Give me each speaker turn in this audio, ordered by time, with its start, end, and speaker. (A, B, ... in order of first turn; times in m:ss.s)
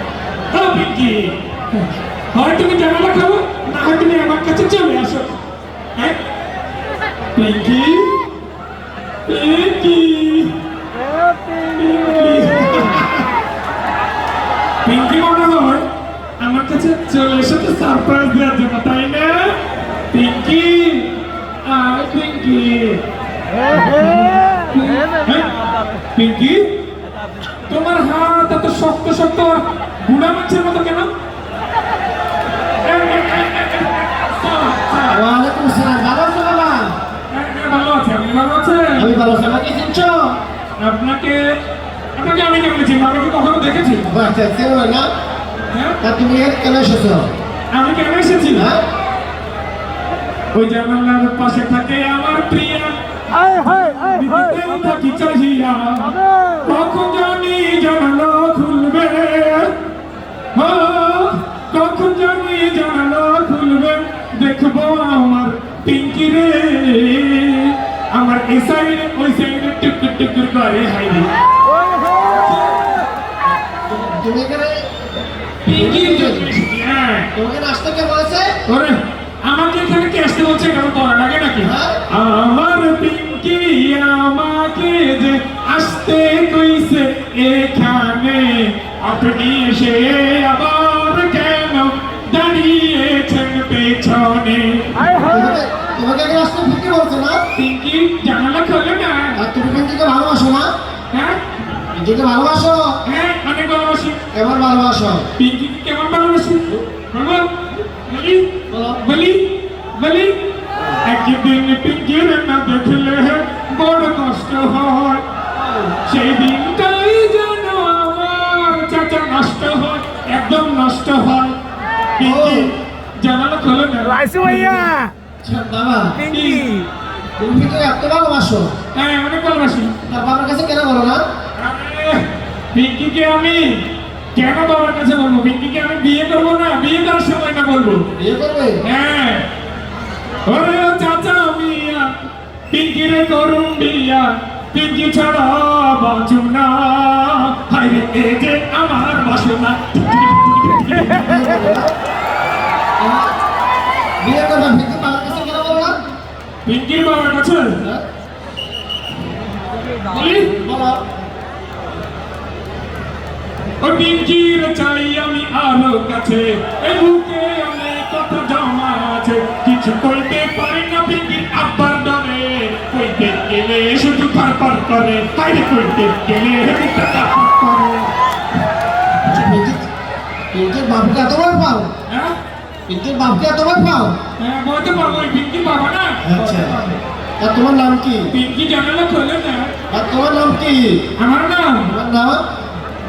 0:00.5-0:01.4 A
0:02.3-0:05.4 A
0:07.4-0:08.2 A
0:09.3-0:10.5 A
0:11.6-0:13.3 A
0:14.8-0:15.8 A
0:16.4-0:19.6 A
0:20.1-0:21.1 A
0:21.6-0:23.0 A
0:23.8-0:24.1 A
0:24.7-0:25.5 A
0:26.2-0:26.6 A
0:27.7-0:31.1 A
0:32.8-0:35.2 A
0:35.1-0:37.0 B
0:37.3-0:39.1 A
0:39.0-0:40.4 B
0:40.8-0:41.6 A
0:42.2-0:44.1 A
0:44.1-0:45.1 B
0:45.7-0:46.0 A
0:46.0-0:47.3 B
0:47.7-0:48.7 A
0:48.5-0:48.8 B
0:50.5-0:53.0 A
0:53.7-0:59.7 A
1:00.6-1:11.3 A
1:12.3-1:12.8 A
1:13.9-1:14.9 B
1:15.6-1:17.3 A
1:15.7-1:16.5 B
1:17.4-1:18.5 B
1:18.7-1:34.9 A
1:21.6-1:22.0 B
1:35.3-1:37.4 B
1:37.6-1:39.4 A
1:39.4-1:40.7 B
1:41.1-1:41.4 A
1:41.9-1:43.0 B
1:43.0-1:44.2 A
1:44.3-1:45.3 B
1:45.4-1:47.5 A
1:48.1-1:49.4 A
1:48.7-1:49.0 B
1:50.0-1:50.4 A
1:51.0-1:55.2 A
1:55.6-1:56.0 B
1:56.1-2:01.6 A
2:02.2-2:05.0 A
2:02.2-2:02.7 B
2:05.4-2:06.3 B
2:06.3-2:06.8 A
2:07.4-2:08.7 B
2:08.9-2:09.9 A
2:10.1-2:11.2 B
2:11.6-2:13.8 A
2:14.3-2:18.0 A
2:18.2-2:18.8 B
2:18.8-2:19.4 A
2:20.5-2:22.1 A
2:22.7-2:31.3 A
2:31.1-2:31.9 B
2:33.0-2:33.3 B
2:34.2-2:36.0 B
2:36.6-2:37.8 A
2:40.1-2:40.6 A
2:40.6-2:41.0 B
2:43.8-2:58.1 A
2:59.3-2:59.9 B
3:00.5-3:01.9 B
3:02.1-3:02.4 A
3:02.9-3:04.2 B
3:04.4-3:06.4 A
3:06.2-3:08.3 B
3:08.3-3:09.7 A
3:09.9-3:11.0 B
3:11.2-3:11.9 A
3:11.9-3:12.4 B